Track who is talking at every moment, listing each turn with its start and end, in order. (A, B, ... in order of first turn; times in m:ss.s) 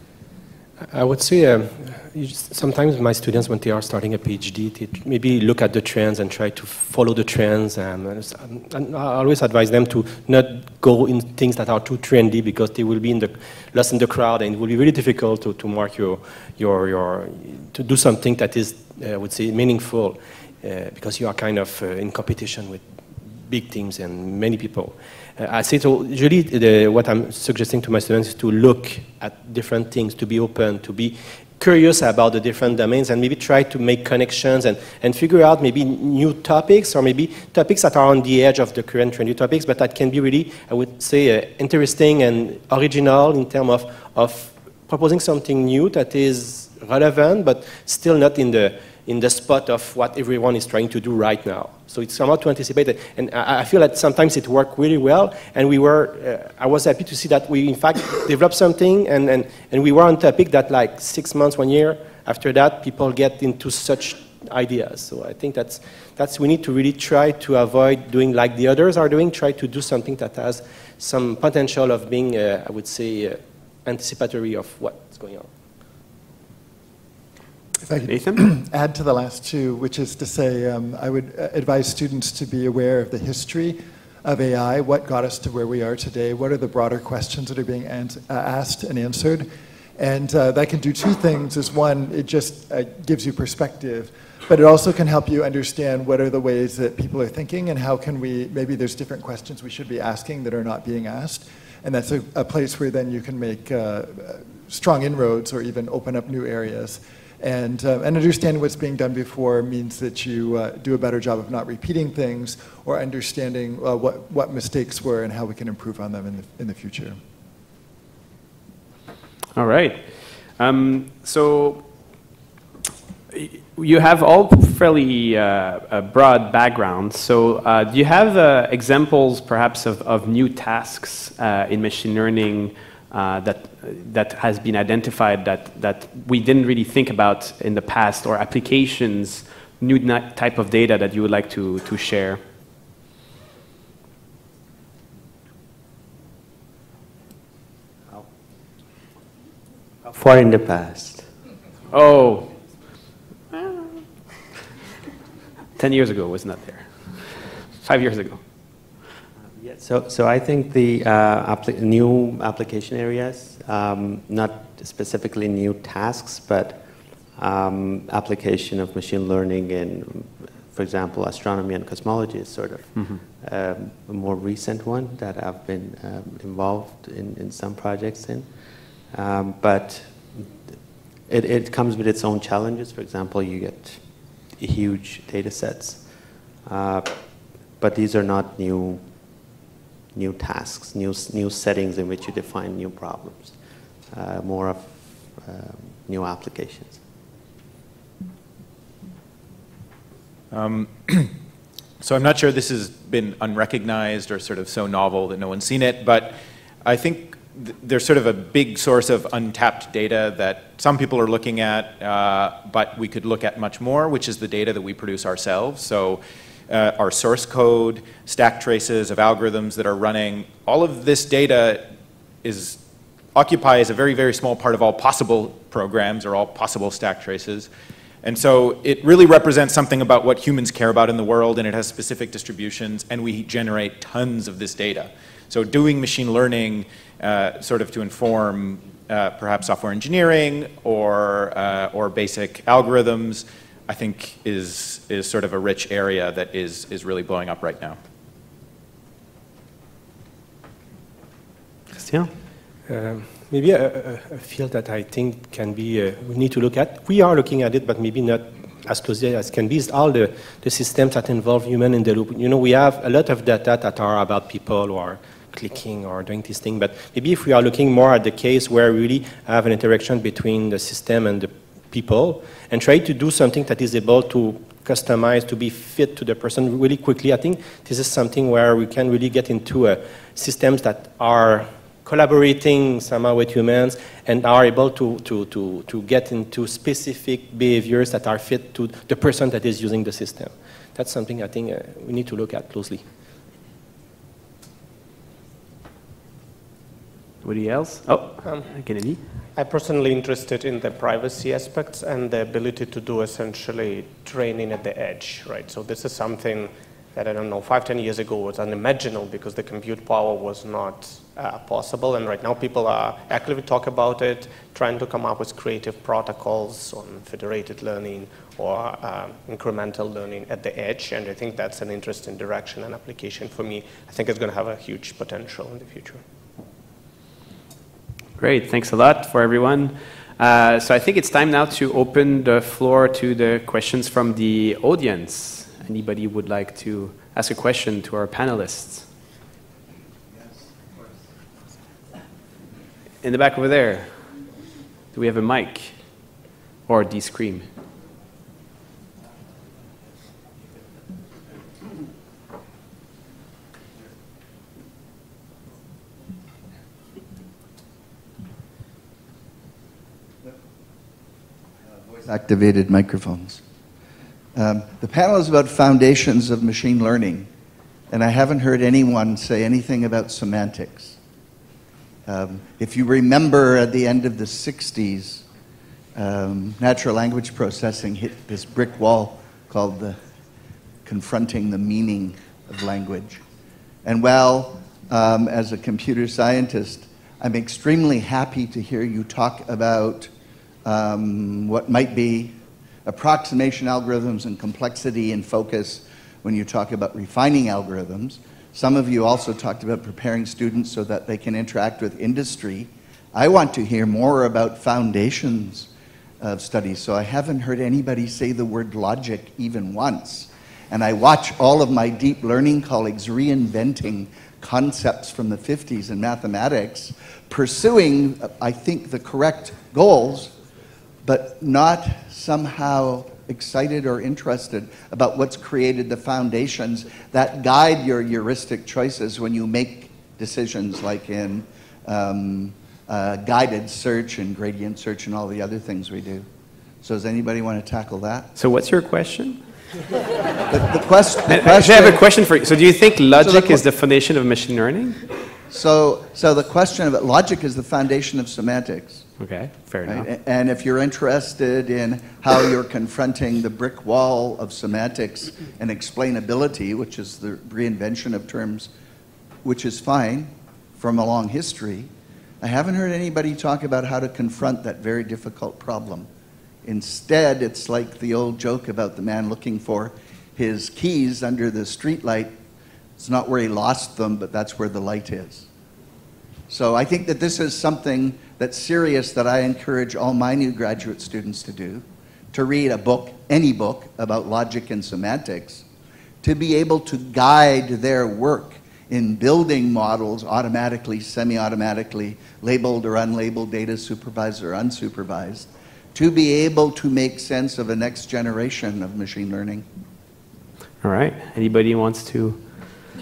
0:00.9-1:15.5 A
1:17.8-1:57.2 B
1:18.1-1:18.4 C
1:59.6-2:01.8 C
2:03.3-2:22.4 C
2:30.0-2:31.3 D
2:31.9-2:32.5 C
2:33.5-2:33.8 C
2:35.8-2:38.4 C
2:39.4-3:00.6 D
2:52.9-2:53.2 C
3:01.2-3:09.6 D
3:10.1-3:17.0 D
3:20.5-3:21.3 E
3:22.0-3:41.8 E
3:42.4-3:42.8 E
3:43.3-3:47.7 E
3:48.2-4:08.0 E
4:11.9-4:12.3 C
4:12.9-4:53.0 A
4:57.4-4:59.2 C
4:59.5-5:26.2 F
5:28.4-5:39.1 C
5:43.2-5:44.3 C
5:45.1-5:46.0 C
5:46.9-5:47.7 C
6:01.9-6:03.6 G
6:04.5-6:07.5 G
6:08.1-6:11.2 G
6:12.2-6:15.4 G
6:16.1-6:20.2 G
6:21.0-6:23.4 G
6:24.0-6:30.3 G
6:30.8-7:00.5 G
7:01.2-7:16.5 G
7:17.0-7:18.5 G
7:18.6-7:19.6 C
7:20.7-7:22.3 G
7:21.5-7:25.3 C
7:23.4-7:23.8 G
7:25.7-7:29.3 G
7:29.4-7:30.3 C
7:30.0-7:38.9 G
7:39.6-7:42.1 G
7:42.6-7:46.3 G
7:46.8-7:52.5 G
7:53.2-7:55.7 G
7:56.7-8:05.8 G
8:06.4-8:19.8 G
8:21.0-8:23.0 C